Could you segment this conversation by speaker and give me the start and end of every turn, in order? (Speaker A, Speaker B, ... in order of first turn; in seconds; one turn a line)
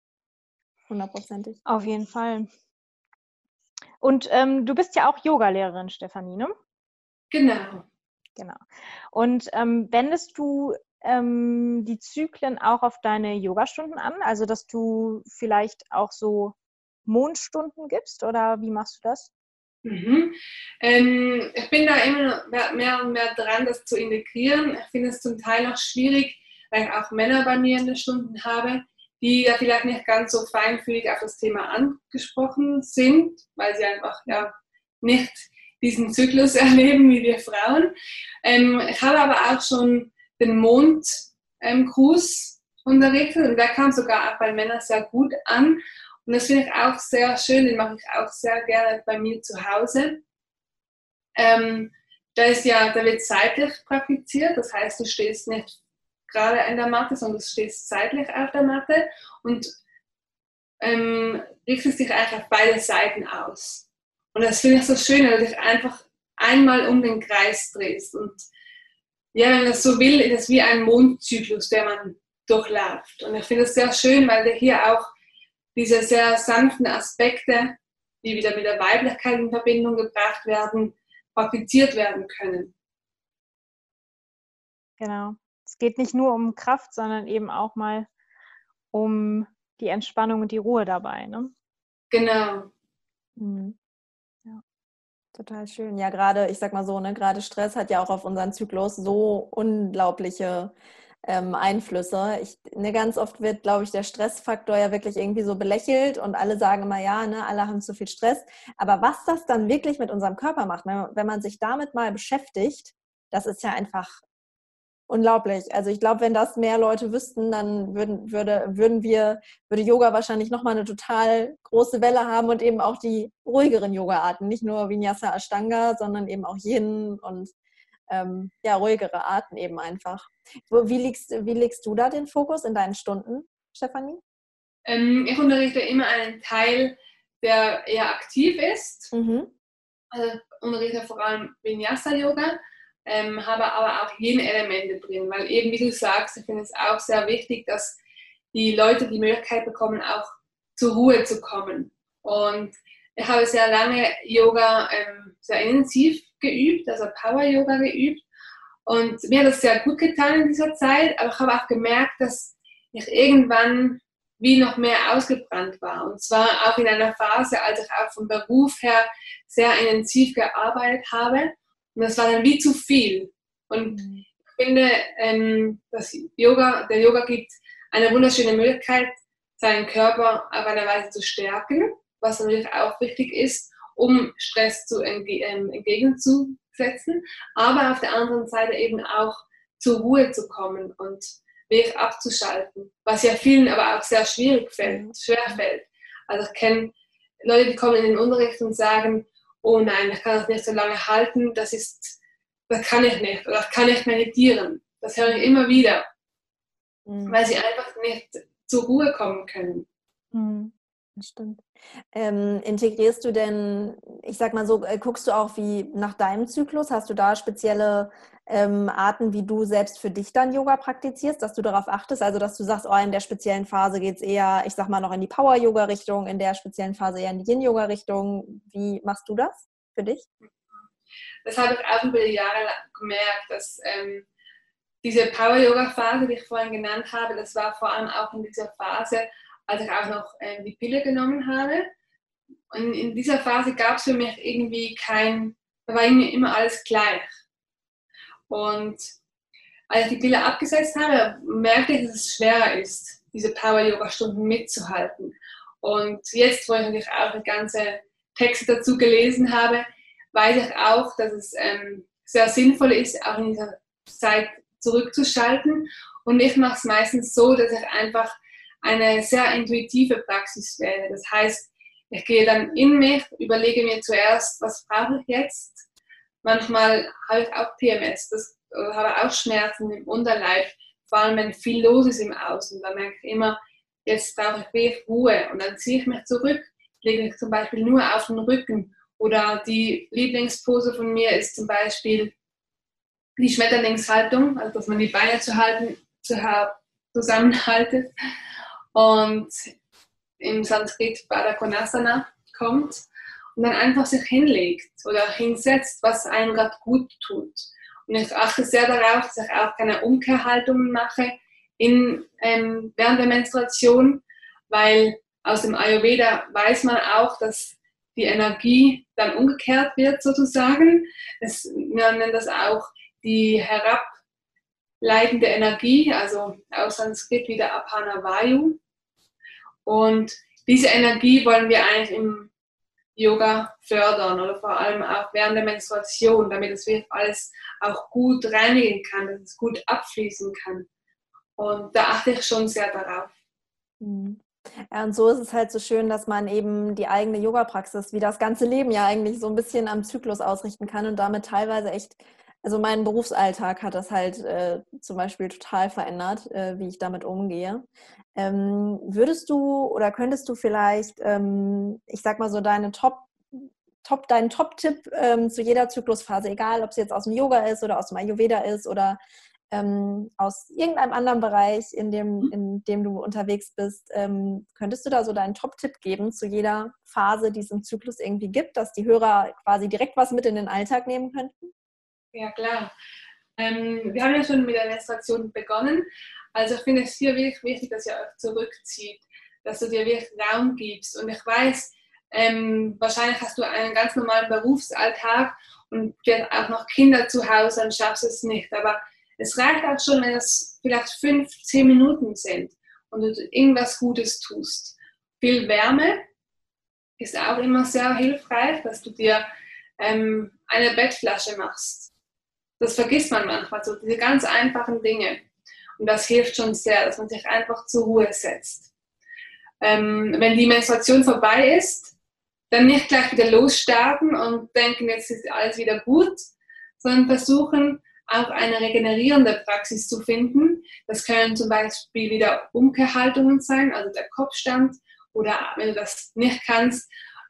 Speaker A: 0.9-1.6
Speaker B: 1.7-2.5
Speaker B: 4.0-6.5
Speaker C: 7.3-7.8
Speaker B: 9.1-19.3
Speaker C: 19.8-37.9
Speaker C: 38.4-50.2
Speaker C: 51.4-55.7
Speaker C: 56.3-59.7
Speaker C: 60.8-68.5
Speaker C: 69.3-75.1
Speaker C: 75.8-82.7
Speaker B: 85.0-88.1
Speaker B: 88.9-91.5
Speaker C: 92.1-92.7
Speaker A: 93.4-93.8
Speaker A: 95.3-114.2
Speaker A: 115.1-127.5
Speaker A: 128.1-134.2
Speaker C: 134.9-139.1
Speaker A: 139.1-139.5
Speaker C: 140.1-148.0
Speaker C: 148.5-158.2
Speaker C: 158.8-196.9
Speaker A: 173.9-174.3
Speaker A: 194.8-195.6
Speaker C: 197.4-202.2
Speaker C: 202.7-206.0
Speaker A: 205.2-205.6
Speaker A: 207.1-207.4
Speaker C: 207.3-209.9
Speaker A: 210.3-230.2
Speaker C: 231.4-234.3
Speaker C: 235.0-241.9
Speaker C: 242.7-247.3
Speaker C: 248.5-249.0
Speaker C: 249.9-275.9
Speaker C: 276.4-292.3
Speaker C: 293.4-298.1
Speaker C: 298.9-299.6
Speaker C: 300.4-303.0
Speaker C: 303.6-324.2
Speaker C: 325.0-328.8
Speaker C: 329.9-332.5
Speaker C: 333.2-340.9
Speaker C: 341.6-343.3
Speaker A: 344.0-369.2
Speaker A: 369.7-381.7
Speaker C: 382.3-382.9
Speaker C: 383.6-406.2
Speaker C: 407.2-409.5
Speaker C: 410.0-412.1
Speaker C: 412.8-415.4
Speaker C: 416.0-418.9
Speaker C: 419.8-422.1
Speaker C: 422.7-426.5
Speaker C: 427.0-437.1